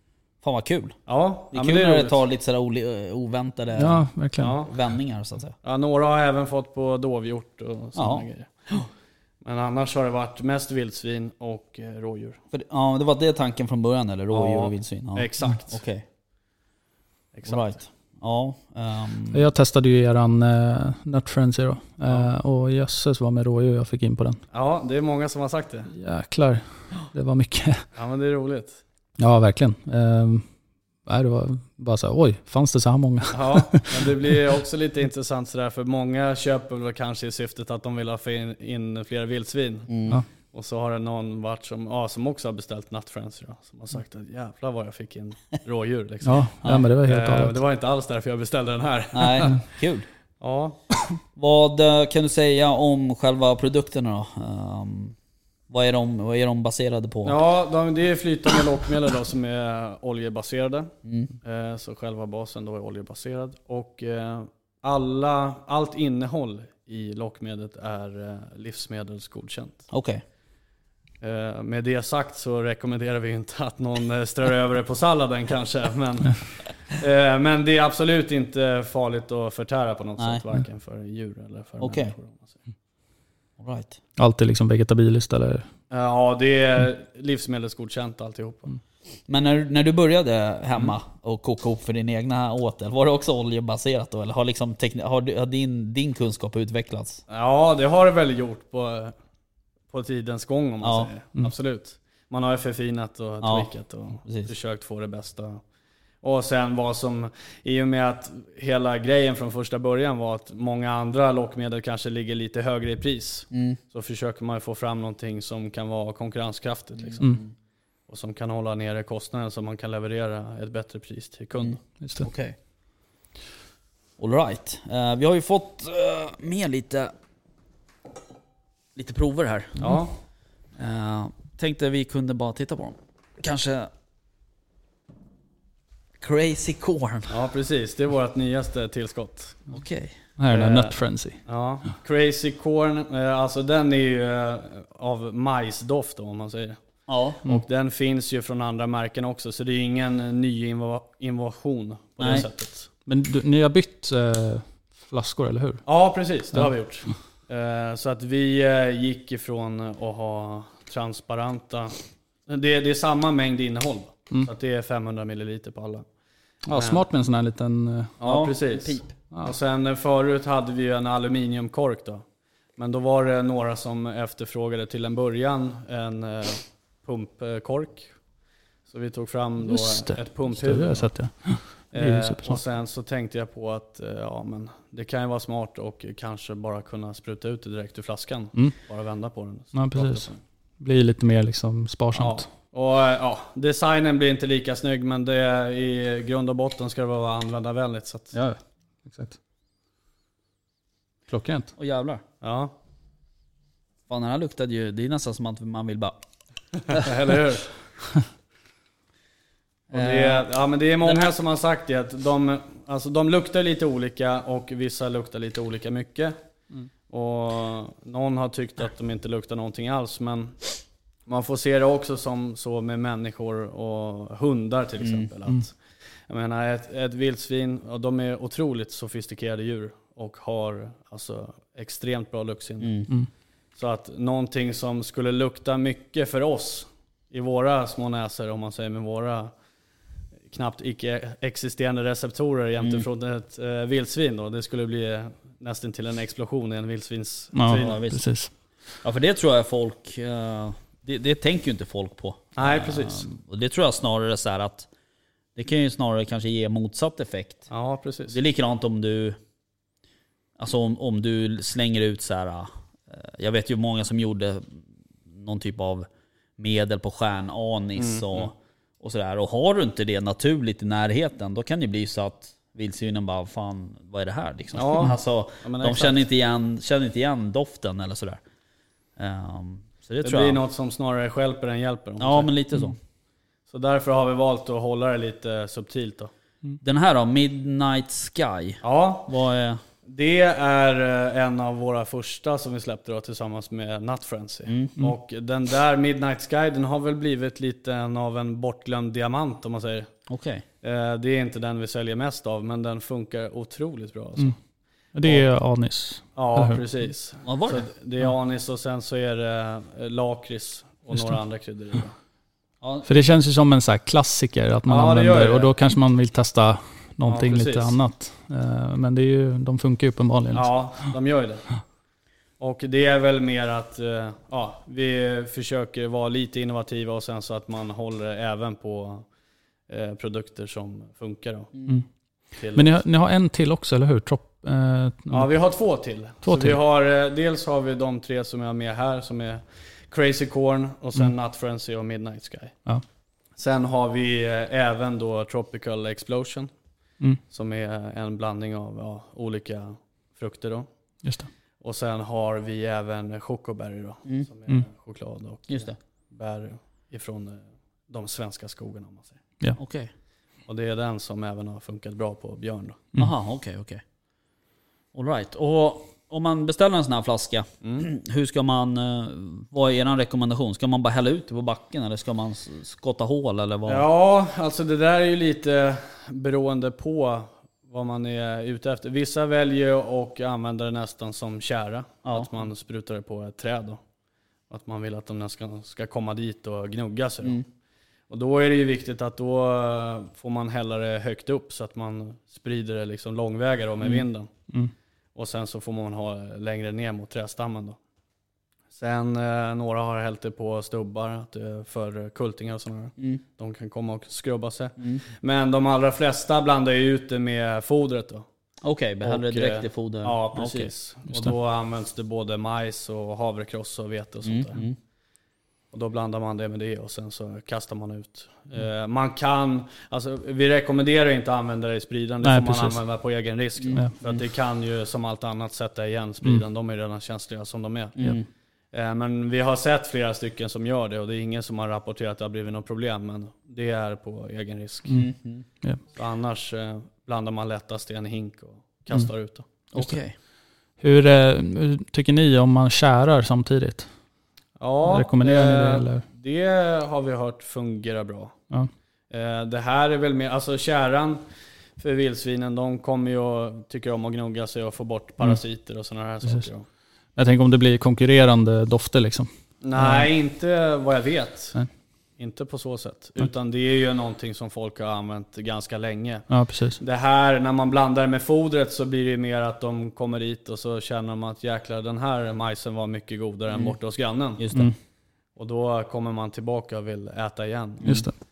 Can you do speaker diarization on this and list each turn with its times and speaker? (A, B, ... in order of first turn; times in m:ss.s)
0:00.4-0:01.0 A
0:01.1-0:02.2 B
0:01.5-0:04.0 A
0:03.8-0:04.6 C
0:04.4-0:04.7 B
0:04.6-0:05.6 A
0:05.6-0:08.9 B
0:08.0-0:08.3 A
0:09.4-0:12.4 B
0:12.5-0:16.0 A
0:14.3-0:15.8 B
0:17.3-0:17.8 B
0:17.4-0:19.4 A
0:19.3-0:24.4 C
0:24.5-0:25.9 B
0:25.9-0:27.8 C
0:28.0-0:28.8 B
0:29.2-0:30.5 C
0:31.1-0:34.1 C
0:33.3-0:49.6 B
0:39.9-0:40.2 A
0:46.2-0:47.6 C
0:49.1-0:50.1 A
0:50.4-0:50.8 B
0:51.3-0:55.2 A
0:55.7-0:57.4 A
0:57.2-1:09.9 B
1:01.0-1:01.3 A
1:09.9-1:10.2 A
1:11.2-1:22.6 B
1:20.2-1:20.4 A
1:21.8-1:22.2 A
1:23.6-1:24.0 A
1:24.2-1:25.7 C
1:25.9-1:28.8 B
1:29.3-1:37.2 A
1:37.3-1:39.2 B
1:39.9-1:45.6 B
1:40.8-1:41.1 A
1:43.4-1:43.7 A
1:44.2-1:44.5 A
1:46.2-1:57.4 B
1:53.5-1:53.8 A
1:57.0-1:57.5 A
1:58.1-2:01.8 B
2:01.6-2:02.6 A
2:02.0-2:02.3 C
2:04.2-2:07.1 A
2:09.0-2:09.9 A
2:09.8-2:10.1 C
2:09.8-2:10.1 B
2:10.8-2:13.9 A
2:16.2-2:17.3 A
2:17.3-2:19.7 B
2:19.7-2:20.2 A
2:20.4-2:21.4 C
2:20.5-2:26.8 B
2:27.1-2:27.4 A
2:27.4-2:32.9 B
2:32.2-2:32.5 A
2:33.1-2:35.8 C
2:35.8-2:46.1 B
2:46.7-2:48.2 C
2:46.7-2:47.0 B
2:48.2-2:52.2 B
2:48.2-2:49.1 A
2:52.8-2:58.1 B
2:58.9-3:10.4 B
2:59.6-3:02.6 C
3:09.7-3:12.5 C
3:12.1-3:18.3 B
3:18.3-3:19.4 C
3:21.3-3:21.7 C
3:21.8-3:22.2 A
3:22.4-3:22.7 B
3:24.1-3:26.2 A
3:26.9-3:27.8 B
3:29.9-3:30.5 A
3:29.9-3:36.4 B
3:31.0-3:31.3 A
3:37.1-3:45.8 B
3:45.0-3:45.3 A
3:46.3-3:53.1 B
3:52.8-3:53.1 A
3:53.8-3:59.5 B
4:00.5-4:08.0 B
4:02.8-4:03.1 A
4:07.5-4:08.5 C
4:07.7-4:08.3 A
4:09.0-4:14.9 A
4:12.6-4:13.3 B
4:15.6-4:17.7 A
4:17.7-4:18.4 B
4:18.3-4:19.4 A
4:20.6-4:26.1 A
4:26.6-4:38.4 A
4:28.0-4:28.5 B
4:34.7-4:36.2 B
4:39.2-4:40.6 A
4:40.2-4:42.5 B
4:42.2-4:43.0 A
4:43.7-4:46.3 B
4:46.8-4:49.8 A
4:48.8-4:49.3 B
4:50.1-5:00.1 B
4:54.7-4:55.0 A
5:00.3-5:00.6 A
5:00.8-5:04.6 B
5:05.1-5:06.8 C
5:06.4-5:12.2 B
5:07.4-5:07.9 A
5:11.1-5:11.4 C
5:12.8-5:13.1 A
5:13.1-5:21.1 C
5:14.9-5:15.8 B
5:17.3-5:18.0 B
5:20.5-5:21.8 B
5:22.6-5:29.3 B
5:29.9-5:31.7 B
5:32.6-5:33.0 B
5:32.7-5:35.5 C
5:35.3-5:42.8 B
5:36.4-5:36.8 C
5:43.6-5:46.7 B
5:47.5-5:50.9 B
5:51.2-5:51.5 C
5:51.8-5:59.4 B
5:55.7-5:56.0 A
5:59.8-6:00.1 A
6:00.7-6:03.1 B
6:03.2-6:04.0 A
6:05.1-6:14.0 A
6:07.8-6:08.1 B
6:13.9-6:24.0 B
6:22.2-6:22.5 A
6:24.7-6:27.6 B
6:28.3-6:34.5 B
6:35.4-6:38.0 B
6:39.0-6:48.4 B
6:45.0-6:45.2 A
6:48.8-6:50.9 A
6:49.2-6:54.8 B
6:54.4-6:55.0 A
6:55.9-7:08.4 B
7:02.4-7:03.0 C
7:03.8-7:04.4 A
7:08.2-7:08.5 A
7:08.9-7:15.2 B
7:15.1-7:15.6 A
7:16.1-7:19.6 B
7:19.9-7:20.4 A
7:21.0-7:24.1 C
7:24.8-7:28.6 B
7:25.0-7:26.3 C
7:29.3-7:31.4 B
7:32.0-7:36.8 B
7:37.4-7:40.3 C
7:39.8-7:41.8 B
7:42.4-7:54.7 B
7:46.5-7:47.0 C
7:54.6-7:54.9 A
7:55.6-7:58.3 B
7:58.0-7:58.3 C